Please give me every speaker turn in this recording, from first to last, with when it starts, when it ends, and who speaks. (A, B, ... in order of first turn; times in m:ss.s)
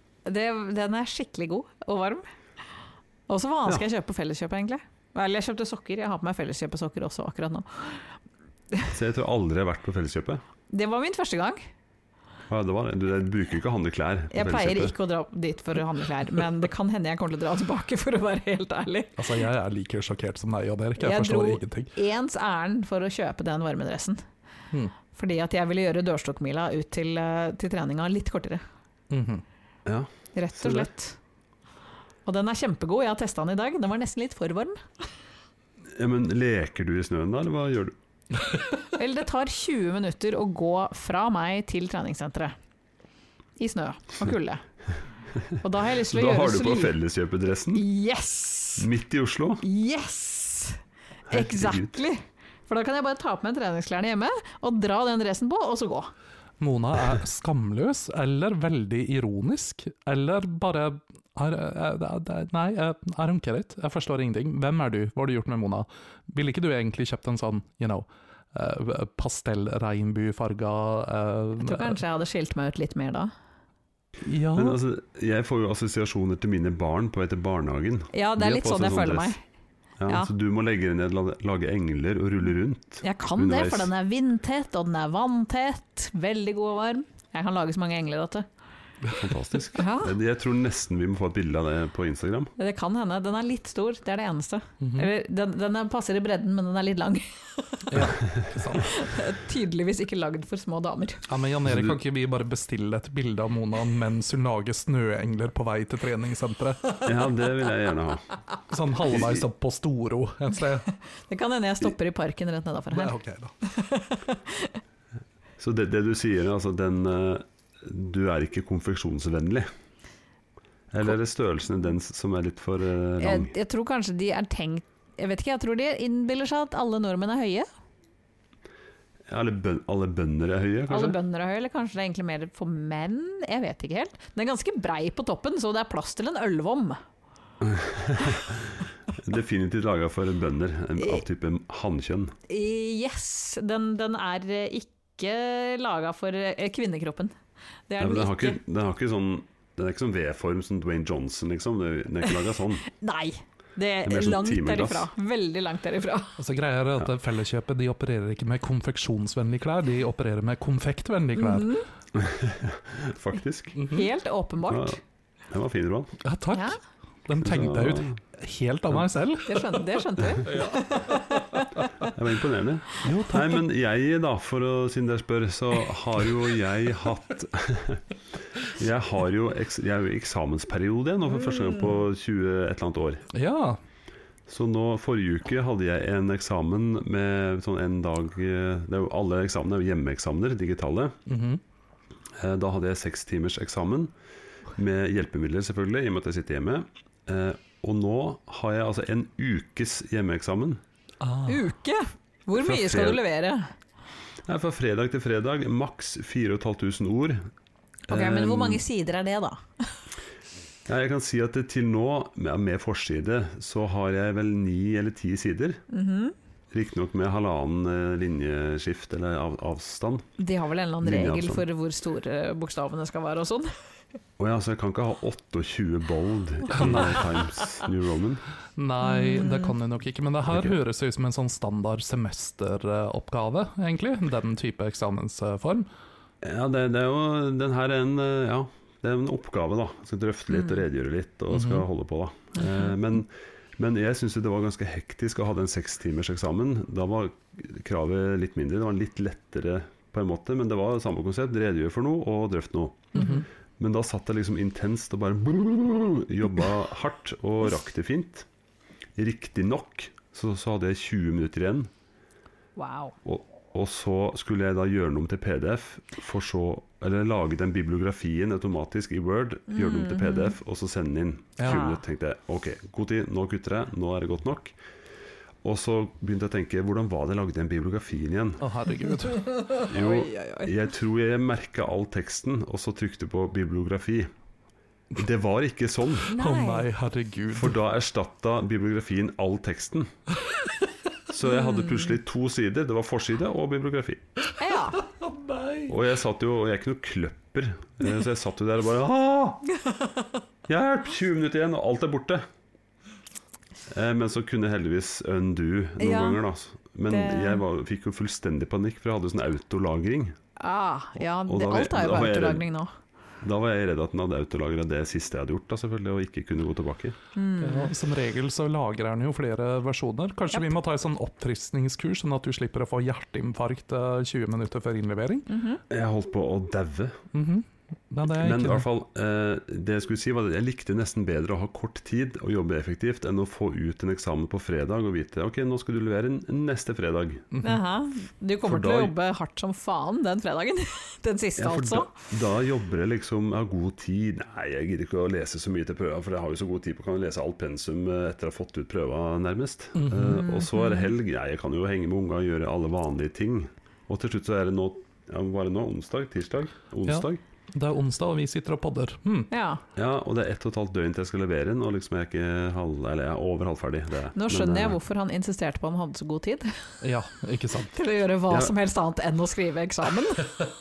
0:00.3-0:02.2 A
0:03.3-0:08.1 A
0:08.9-0:10.4 B
0:10.7-0:11.7 A
0:12.5-0:14.9 B
0:14.3-0:19.3 A
0:19.2-0:21.9 C
0:21.0-0:24.2 A
0:25.1-0:28.6 A
0:29.1-0:29.4 C
0:29.9-0:30.9 B
0:30.3-0:31.2 A
0:32.3-0:34.8 A
0:36.0-0:38.0 B
0:38.8-0:42.6 A
0:43.6-0:44.6 A
0:45.6-0:46.9 A
0:46.0-0:47.8 B
0:47.8-0:48.9 A
0:48.8-0:49.6 B
0:49.6-0:56.1 A
0:51.3-0:52.0 B
0:56.6-1:12.0 C
1:11.6-1:13.3 A
1:14.2-1:14.8 C
1:14.5-1:19.4 B
1:18.1-1:19.4 A
1:20.0-1:23.9 B
1:23.0-1:28.5 A
1:29.1-1:32.5 B
1:29.8-1:30.2 A
1:32.6-1:37.9 A
1:34.8-1:35.1 C
1:37.9-1:39.0 C
1:38.7-1:41.2 A
1:41.3-1:47.1 C
1:41.6-1:42.0 B
1:47.0-1:48.3 B
1:48.7-1:50.9 C
1:49.1-1:49.5 B
1:51.3-1:54.8 A
1:52.9-1:53.5 C
1:55.6-1:59.7 B
2:00.9-2:03.5 B
2:03.2-2:07.7 A
2:09.3-2:11.2 B
2:10.9-2:17.0 A
2:17.6-2:22.4 B
2:22.5-2:27.3 A
2:27.9-2:28.6 A
2:28.0-2:32.9 B
2:32.9-2:36.4 A
2:34.0-2:35.1 B
2:36.4-2:41.8 C
2:41.4-2:41.9 A
2:42.2-2:43.9 B
2:43.8-2:44.1 C
2:43.9-2:45.0 A
2:44.7-2:45.0 B
2:45.5-2:46.2 B
2:46.2-2:49.8 C
2:46.5-2:46.8 A
2:47.4-2:48.2 B
2:49.4-2:51.9 A
2:50.4-2:51.4 C
2:52.0-2:58.0 B
2:53.0-2:53.6 C
2:58.6-3:03.3 B
3:03.3-3:03.8 C
3:04.5-3:11.2 B
3:11.3-3:11.6 C
3:12.4-3:14.1 B
3:14.8-3:20.8 B
3:21.2-3:21.7 C
3:21.5-3:23.7 A
3:22.6-3:23.2 B
3:24.5-3:27.5 B
3:28.1-3:28.8 B
3:28.1-3:30.0 A
3:30.9-3:35.8 B
3:35.9-3:36.4 A
3:36.7-3:40.3 B
3:40.4-3:43.7 A
3:41.0-3:41.6 B
3:44.4-3:48.4 B
3:46.7-3:47.3 C
3:48.8-3:55.9 C
3:49.0-3:49.7 A
3:50.5-3:50.8 B
3:56.4-4:18.5 B
4:01.5-4:01.9 C
4:02.6-4:02.9 A
4:13.2-4:13.4 C
4:19.2-4:21.9 B
4:22.8-4:23.2 A
4:23.2-4:34.7 B
4:29.7-4:30.6 A
4:31.6-4:31.9 C
4:31.7-4:32.0 A
4:35.6-4:38.6 B
4:38.6-4:39.4 C
4:39.4-4:40.7 A
4:39.8-4:44.3 B
4:45.2-4:46.3 B
4:46.3-4:46.9 A
4:46.4-4:47.8 C
4:47.5-4:50.1 B
4:51.3-4:54.2 B
4:51.5-4:52.1 A
4:54.6-4:55.0 A
4:55.2-4:55.9 C
4:55.9-4:59.6 B
5:00.7-5:02.4 B
5:03.9-5:10.4 B
5:06.0-5:06.4 A
5:07.1-5:07.6 A
5:10.6-5:12.9 A
5:11.4-5:12.6 B
5:13.4-5:17.2 B
5:17.4-5:17.9 A
5:17.6-5:25.5 C
5:25.5-5:25.8 A
5:25.9-5:27.2 B
5:27.3-5:28.8 C
5:28.3-5:37.5 B
5:37.5-5:37.8 C
5:37.6-5:42.1 A
5:38.6-5:39.1 B
5:41.6-5:57.4 B
5:50.0-5:50.5 C
5:50.2-5:51.1 A
5:57.1-5:59.5 C
5:59.5-5:59.8 A
6:00.0-6:05.0 B
6:04.4-6:07.0 A
6:07.0-6:08.0 C
6:07.9-6:10.6 A